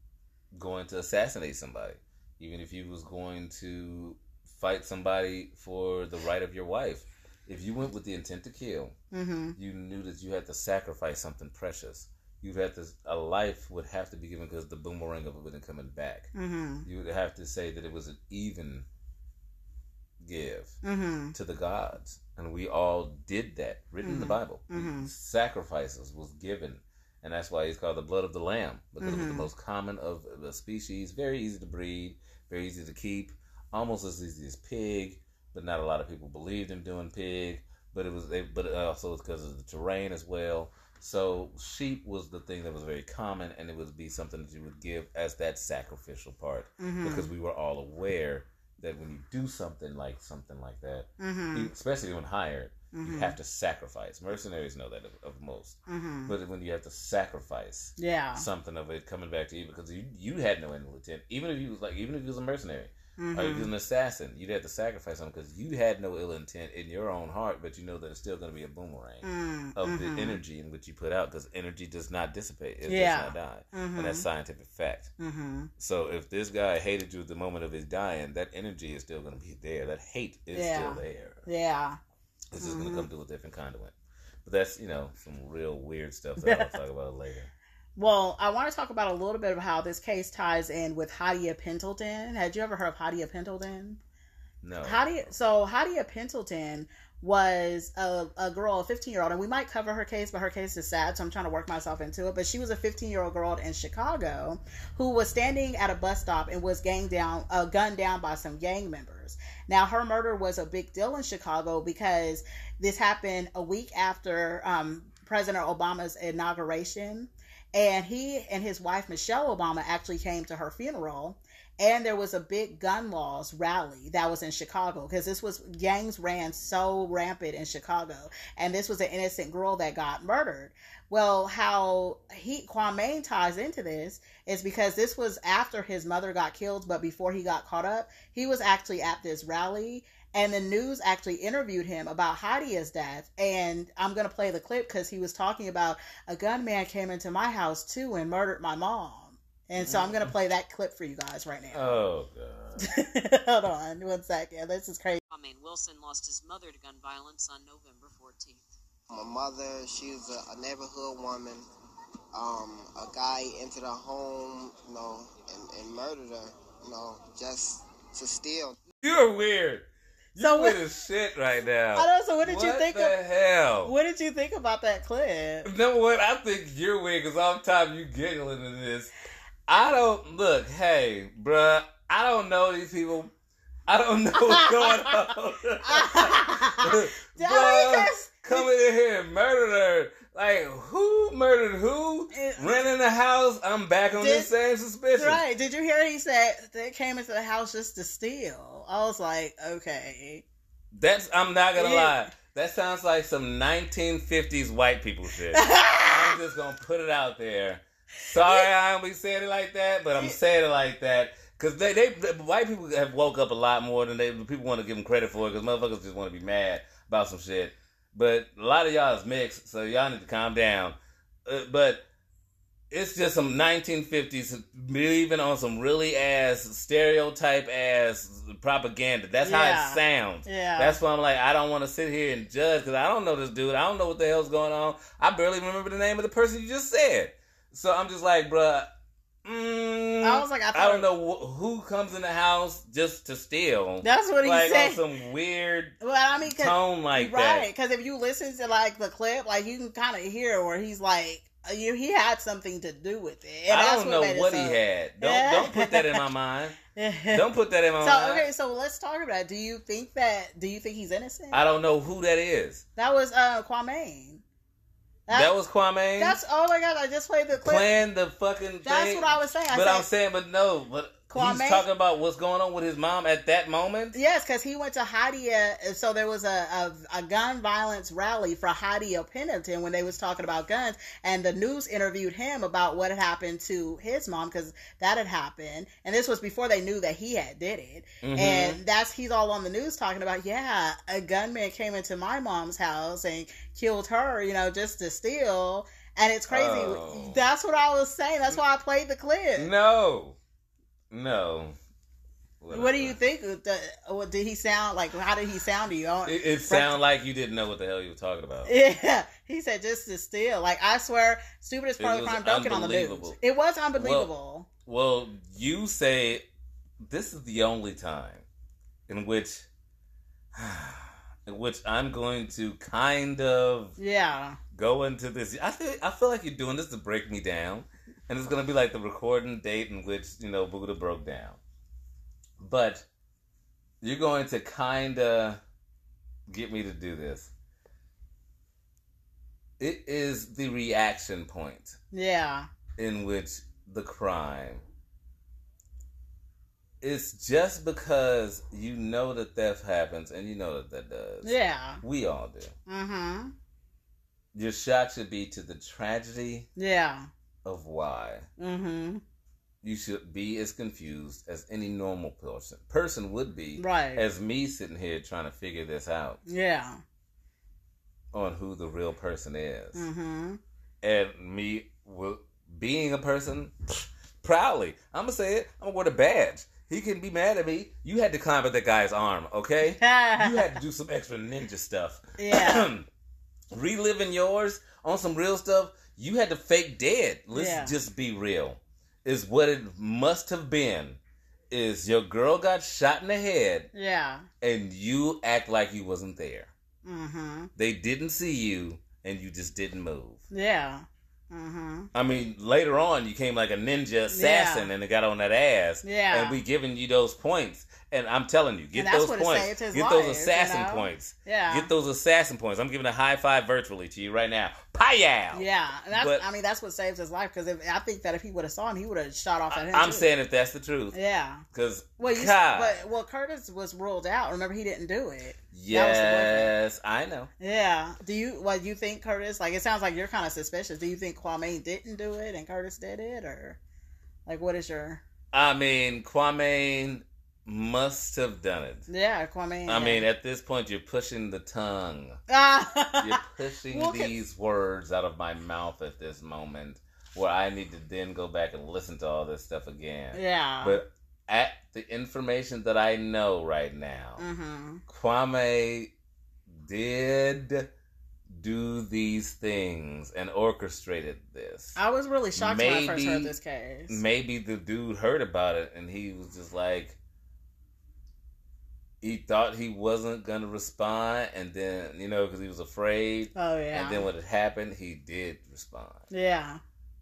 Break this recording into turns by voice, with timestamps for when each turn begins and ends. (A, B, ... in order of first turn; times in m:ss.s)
0:00.5-0:08.9 A
0:09.1-0:09.6 B
0:09.6-0:16.3 A
0:16.3-0:16.9 B
0:16.8-0:18.8 A
0:20.2-0:20.8 A
0:20.8-0:21.3 B
0:21.3-1:09.2 A
0:24.0-0:25.1 B
0:29.0-0:29.5 B
0:46.8-0:47.3 B
0:51.2-0:51.7 B
0:52.9-0:53.4 B
0:55.9-0:56.3 B
0:58.0-0:58.5 B
1:03.2-1:03.7 B
1:09.2-1:10.4 B
1:09.8-1:15.1 A
1:12.9-1:14.2 B
1:15.2-1:15.7 B
1:15.8-1:21.4 A
1:20.5-1:22.0 B
1:22.5-1:27.5 A
1:22.6-1:23.1 B
1:26.4-1:26.8 B
1:28.0-1:34.0 B
1:34.6-1:35.2 A
1:34.8-2:31.9 B
2:29.8-2:30.3 A
2:31.7-2:32.9 A
2:32.8-2:35.2 B
2:35.3-2:38.7 C
2:39.1-2:41.6 D
2:42.3-2:48.8 D
2:49.0-2:53.9 A
2:50.4-2:50.8 B
2:51.9-2:53.2 B
2:53.8-2:55.7 B
2:55.6-2:59.1 A
2:59.7-3:03.3 A
3:03.9-3:15.4 A
3:04.5-3:05.1 B
3:05.8-3:08.7 B
3:12.3-3:12.7 B
3:14.1-3:14.5 B
3:15.2-3:20.4 B
3:20.9-3:42.0 A
3:21.8-3:22.3 B
3:25.5-3:26.4 B
3:42.9-3:58.9 A
3:49.4-3:51.0 B
3:59.4-4:07.7 A
4:00.2-4:01.0 B
4:04.0-4:05.0 B
4:06.0-4:16.2 B
4:13.7-4:16.8 A
4:16.9-4:17.4 B
4:17.3-4:18.5 A
4:18.0-4:21.6 B
4:21.5-4:22.8 A
4:23.0-4:24.4 B
4:25.3-4:26.4 A
4:26.2-4:27.9 B
4:27.5-4:34.2 A
4:28.8-4:30.1 B
4:31.3-4:31.8 B
4:34.1-4:59.7 B
4:48.2-4:48.8 A
4:56.5-4:57.4 A
4:59.6-5:00.4 A
5:01.1-5:01.8 A
5:02.6-5:03.2 A
5:02.7-5:07.0 B
5:06.2-5:08.7 A
5:08.6-5:14.7 B
5:12.0-5:13.4 A
5:14.0-5:14.3 A
5:14.8-5:16.4 A
5:17.0-5:18.4 A
5:19.1-5:19.7 A
5:20.5-5:23.9 A
5:24.0-5:24.6 B
5:24.7-5:31.6 A
5:32.6-5:33.0 A
5:34.0-5:35.6 A
5:36.5-5:37.5 A
5:39.8-5:42.0 A
5:42.1-5:42.7 B
5:43.0-5:44.8 A
5:47.0-5:52.7 A
5:51.4-5:52.0 B
5:52.9-5:53.5 B
5:54.5-5:56.7 A
5:56.8-5:57.3 B
5:57.6-5:58.5 A
5:58.6-5:59.2 B
5:59.8-6:06.4 A
6:03.8-6:04.2 B
6:06.4-6:07.0 B
6:08.3-6:10.0 A
6:09.9-6:10.6 B
6:11.0-6:23.1 A
6:20.0-6:20.8 B
6:22.4-6:22.9 B
6:23.7-6:31.2 A
6:27.5-6:27.9 B
6:31.7-6:33.9 A
6:33.9-6:34.5 B
6:34.6-6:36.7 A
6:37.0-6:37.7 B
6:37.8-6:40.4 A
6:40.5-6:42.1 B
6:42.1-6:56.4 A
6:44.3-6:44.9 B
6:46.0-6:46.6 B
6:48.9-6:51.9 B
6:55.5-7:00.3 B
6:59.7-7:01.2 A
7:01.1-7:01.6 B
7:01.7-7:03.0 A
7:02.2-7:06.7 B
7:05.7-7:07.5 A
7:07.6-7:13.8 B
7:14.4-7:15.2 B
7:15.5-7:19.0 A
7:19.1-7:20.2 B
7:19.9-7:22.4 A
7:22.5-7:24.3 B
7:23.2-7:34.4 A
7:30.3-7:31.0 B
7:34.4-7:35.0 B
7:35.1-7:36.1 A
7:36.7-7:37.9 A
7:38.5-7:42.0 A
7:42.0-7:44.2 B
7:42.6-7:43.5 A
7:44.1-7:47.2 A
7:49.2-7:56.2 A
7:53.6-7:54.3 B
7:56.3-7:56.8 B